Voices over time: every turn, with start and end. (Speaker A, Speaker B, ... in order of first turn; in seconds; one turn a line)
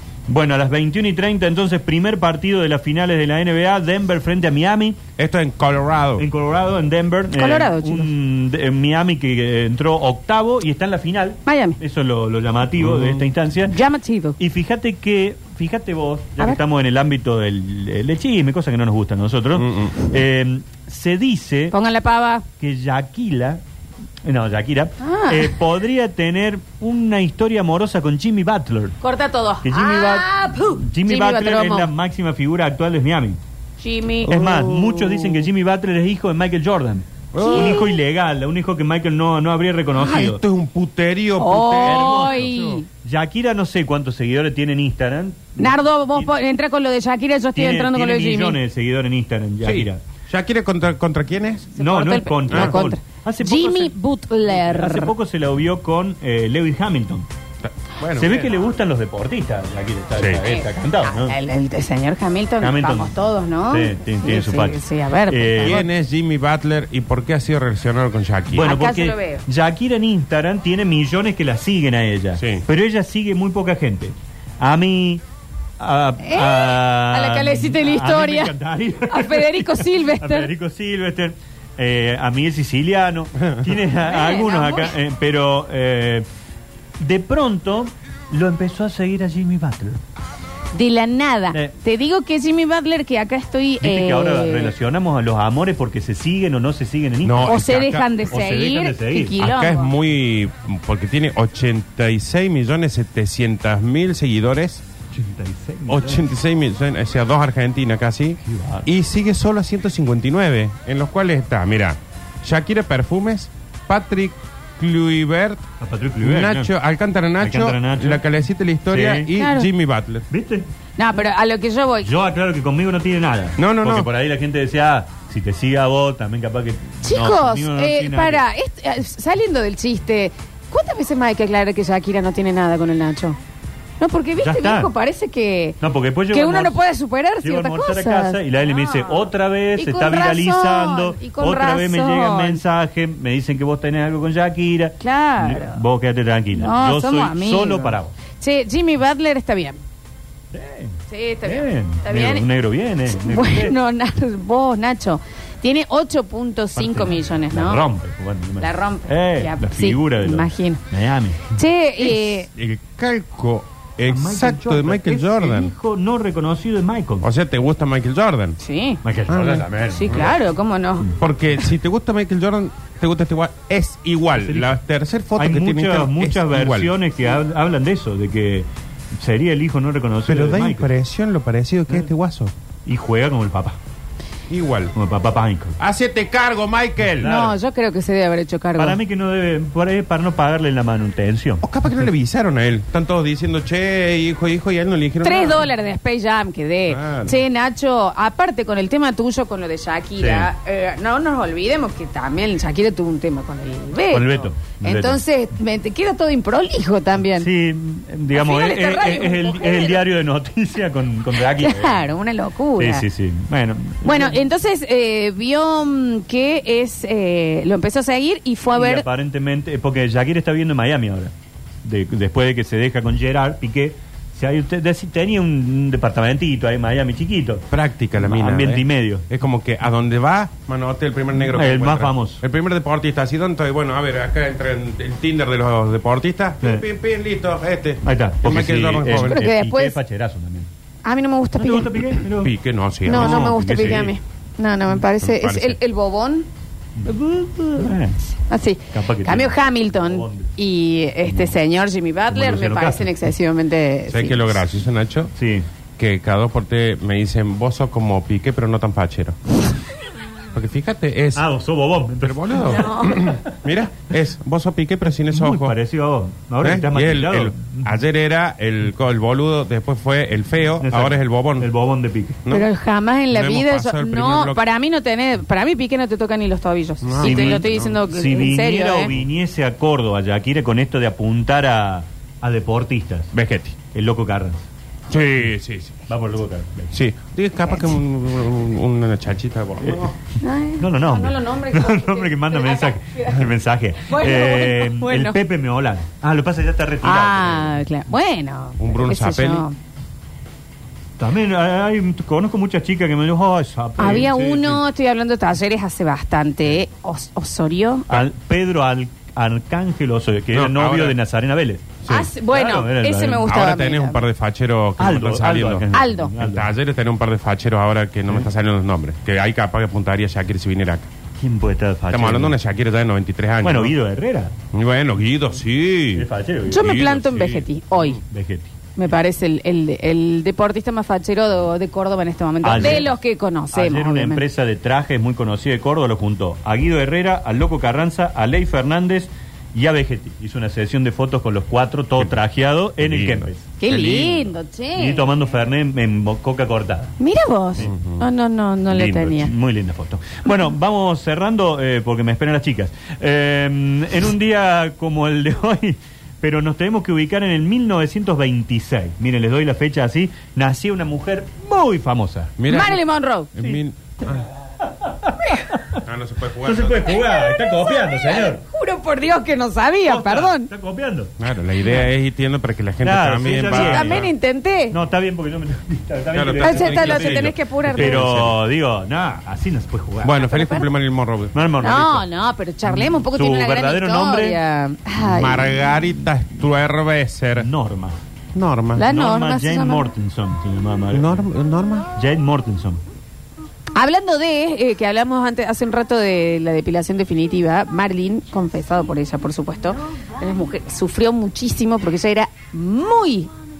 Speaker A: 0.3-5.0
Speaker B: 5.2-6.3
Speaker A: 6.2-13.8
Speaker C: 7.3-8.1
Speaker C: 11.4-11.8
Speaker B: 12.8-13.2
Speaker C: 13.7-14.3
Speaker A: 14.4-21.7
Speaker B: 19.5-19.9
Speaker C: 21.7-22.4
Speaker A: 22.6-23.6
Speaker A: 24.2-29.0
Speaker C: 25.0-25.6
Speaker C: 29.0-31.9
Speaker A: 29.6-33.4
Speaker C: 33.8-34.7
Speaker A: 34.3-40.4
Speaker B: 34.3-35.0
Speaker B: 37.3-37.9
Speaker C: 37.4-37.9
Speaker B: 40.0-42.8
Speaker C: 41.4-42.8
Speaker A: 41.8-46.3
Speaker C: 45.6-48.6
Speaker A: 47.5-50.0
Speaker B: 49.6-51.8
Speaker C: 51.8-55.1
Speaker A: 51.8-53.9
Speaker B: 52.5-52.8
Speaker A: 54.5-57.3
Speaker B: 57.6-58.6
Speaker A: 58.1-61.4
Speaker B: 60.2-60.4
Speaker C: 60.4-65.8
Speaker A: 62.6-63.1
Speaker A: 63.7-65.8
Speaker B: 65.6-68.7
Speaker A: 68.5-75.2
Speaker C: 68.6-69.4
Speaker B: 72.4-72.6
Speaker A: 75.8-86.2
Speaker C: 76.2-78.5
Speaker C: 79.1-80.5
Speaker C: 84.0-84.9
Speaker A: 87.0-90.0
Speaker C: 90.7-94.7
Speaker A: 93.8-97.7
Speaker B: 97.2-98.1
Speaker C: 97.4-99.9
Speaker A: 98.3-99.4
Speaker B: 99.4-104.8
Speaker A: 105.1-106.3
Speaker B: 105.9-115.6
Speaker A: 108.4-108.9
Speaker A: 115.8-116.7
Speaker B: 116.2-120.3
Speaker A: 117.4-118.3
Speaker A: 118.9-119.3
Speaker C: 119.3-119.7
Speaker A: 120.3-120.7
Speaker C: 121.0-122.1
Speaker A: 122.0-128.4
Speaker B: 123.6-124.1
Speaker C: 127.0-133.4
Speaker C: 134.0-135.8
Speaker A: 134.4-134.9
Speaker A: 135.8-136.8
Speaker C: 136.3-142.6
Speaker A: 137.4-148.1
Speaker C: 145.0-145.8
Speaker C: 146.5-149.8
Speaker A: 150.5-153.7
Speaker C: 151.1-152.5
Speaker C: 153.1-157.8
Speaker A: 156.8-161.6
Speaker C: 158.6-160.8
Speaker C: 161.5-162.5
Speaker B: 162.0-165.7
Speaker A: 164.1-167.3
Speaker B: 167.2-168.6
Speaker C: 168.6-169.0
Speaker A: 169.0-170.3
Speaker B: 169.3-170.3
Speaker C: 169.9-171.1
Speaker B: 171.1-176.9
Speaker A: 174.4-174.7
Speaker A: 175.4-180.9
Speaker B: 180.3-182.5
Speaker A: 182.8-183.8
Speaker B: 184.5-184.9
Speaker A: 184.9-185.8
Speaker B: 185.8-187.3
Speaker A: 187.1-187.6
Speaker C: 187.2-189.0
Speaker A: 188.8-191.7
Speaker B: 191.6-195.7
Speaker C: 195.2-207.5
Speaker B: 196.9-197.4
Speaker A: 200.2-200.5
Speaker A: 204.1-205.2
Speaker A: 207.4-212.1
Speaker C: 208.3-210.0
Speaker C: 211.5-213.1
Speaker A: 212.8-214.4
Speaker C: 214.0-219.0
Speaker A: 218.7-221.3
Speaker A: 221.8-227.6
Speaker B: 227.7-239.4
Speaker A: 228.2-229.2
Speaker A: 231.5-232.4
Speaker A: 238.0-240.7
Speaker C: 239.2-240.0
Speaker C: 241.0-241.9
Speaker A: 241.6-242.5
Speaker B: 242.3-244.1
Speaker C: 243.0-246.4
Speaker A: 243.1-244.1
Speaker B: 245.2-245.8
Speaker A: 247.0-248.2
Speaker C: 248.5-254.6
Speaker A: 248.9-250.5
Speaker A: 251.3-251.6
Speaker A: 252.3-253.2
Speaker B: 254.1-255.3
Speaker A: 255.4-255.7
Speaker B: 256.0-259.4
Speaker B: 260.5-261.4
Speaker A: 261.3-263.6
Speaker B: 262.2-265.7
Speaker C: 262.6-263.3
Speaker A: 265.3-268.0
Speaker B: 266.6-271.7
Speaker A: 270.8-272.4
Speaker B: 272.4-272.7
Speaker C: 272.5-279.1
Speaker B: 273.3-274.6
Speaker B: 277.0-278.0
Speaker A: 277.2-283.3
Speaker B: 283.3-283.8
Speaker A: 283.9-284.6
Speaker B: 285.1-286.0
Speaker A: 286.1-286.9
Speaker B: 286.9-290.1
Speaker A: 289.8-290.1
Speaker C: 290.4-293.5
Speaker A: 290.8-297.8
Speaker C: 294.0-295.4
Speaker C: 297.0-299.8
Speaker B: 298.8-299.6
Speaker A: 301.2-304.8
Speaker C: 304.0-308.2
Speaker A: 308.1-313.6
Speaker B: 310.5-311.2
Speaker C: 312.1-314.2
Speaker B: 313.4-321.1
Speaker A: 315.0-316.7
Speaker C: 315.9-316.3
Speaker A: 321.4-322.6
Speaker B: 322.1-323.9
Speaker A: 323.6-324.5
Speaker B: 324.7-328.2
Speaker A: 326.1-327.1
Speaker C: 326.7-328.2
Speaker A: 328.3-328.7
Speaker C: 329.0-334.4
Speaker A: 332.6-333.2
Speaker A: 333.7-347.1
Speaker B: 343.0-343.5
Speaker C: 343.8-345.6
Speaker C: 347.2-349.5
Speaker B: 347.8-348.3
Speaker A: 348.9-362.6
Speaker B: 362.6-364.4
Speaker C: 362.7-363.5
Speaker A: 364.8-366.0
Speaker B: 365.9-367.2
Speaker A: 366.6-368.6
Speaker C: 367.6-370.7
Speaker A: 370.0-371.4
Speaker B: 371.4-374.3
Speaker A: 373.0-374.3
Speaker C: 373.7-375.0
Speaker A: 374.9-380.4
Speaker B: 376.3-378.6
Speaker C: 376.6-378.2
Speaker B: 380.2-381.6
Speaker C: 380.4-380.9
Speaker A: 381.5-382.3
Speaker C: 381.8-385.8
Speaker A: 382.9-384.6
Speaker B: 385.2-387.7
Speaker A: 387.6-388.2
Speaker B: 388.5-389.1
Speaker C: 388.9-390.1
Speaker A: 389.0-391.5
Speaker B: 391.1-392.1
Speaker A: 392.1-393.0
Speaker C: 393.9-403.5